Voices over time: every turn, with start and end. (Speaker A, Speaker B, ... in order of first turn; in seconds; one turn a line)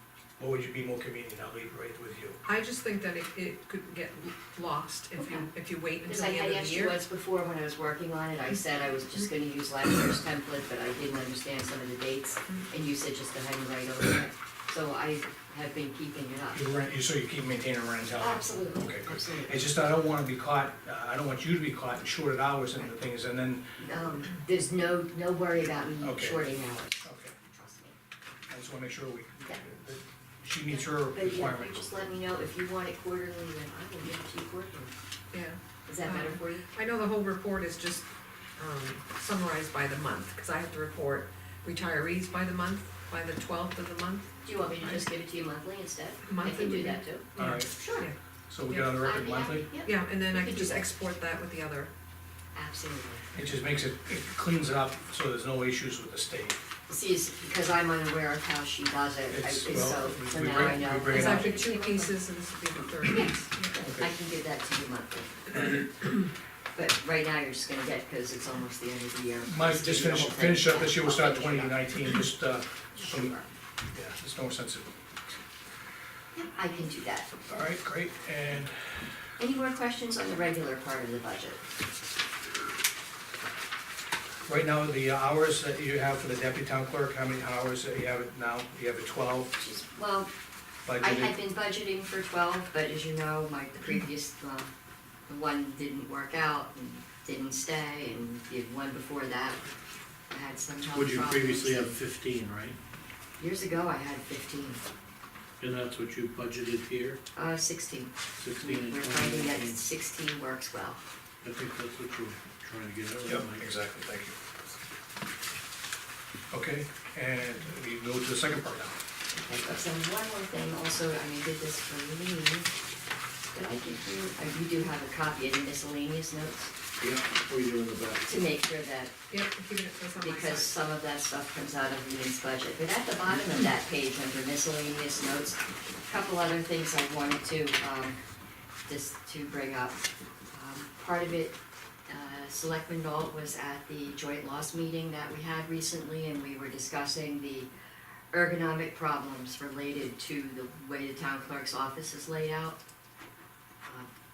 Speaker A: 0.4-2.4
Speaker B: 2.5-7.0
Speaker C: 5.2-5.5
Speaker C: 6.1-16.6
Speaker A: 16.5-23.8
Speaker C: 18.2-19.6
Speaker C: 23.8-28.0
Speaker A: 26.0-26.5
Speaker A: 27.0-27.3
Speaker A: 28.5-31.8
Speaker C: 30.7-34.9
Speaker B: 35.3-45.0
Speaker C: 35.9-36.7
Speaker C: 44.4-48.1
Speaker B: 46.2-48.1
Speaker A: 47.4-47.7
Speaker A: 48.5-49.7
Speaker C: 48.7-50.9
Speaker B: 49.8-51.9
Speaker C: 52.5-53.3
Speaker A: 53.3-56.6
Speaker C: 56.9-62.1
Speaker A: 59.3-61.5
Speaker B: 61.0-63.8
Speaker C: 63.1-65.8
Speaker A: 63.8-64.1
Speaker C: 66.8-71.9
Speaker A: 69.5-73.4
Speaker C: 72.9-73.5
Speaker A: 73.9-74.9
Speaker C: 76.3-77.3
Speaker A: 77.5-79.0
Speaker C: 79.4-81.6
Speaker A: 84.5-89.5
Speaker C: 89.5-90.3
Speaker A: 90.9-91.3
Speaker C: 91.0-94.7
Speaker C: 95.3-99.7
Speaker C: 100.3-102.0
Speaker D: 100.9-102.8
Speaker C: 103.4-104.8
Speaker D: 105.6-107.2
Speaker C: 107.3-111.0
Speaker D: 108.4-109.8
Speaker D: 111.4-113.8
Speaker A: 113.2-114.3
Speaker A: 116.5-119.0
Speaker C: 119.3-122.7
Speaker C: 123.5-126.7
Speaker D: 127.0-128.2
Speaker C: 128.2-129.1
Speaker B: 129.3-130.7
Speaker C: 130.2-138.2
Speaker C: 138.9-140.0
Speaker C: 140.5-147.7
Speaker C: 148.3-152.8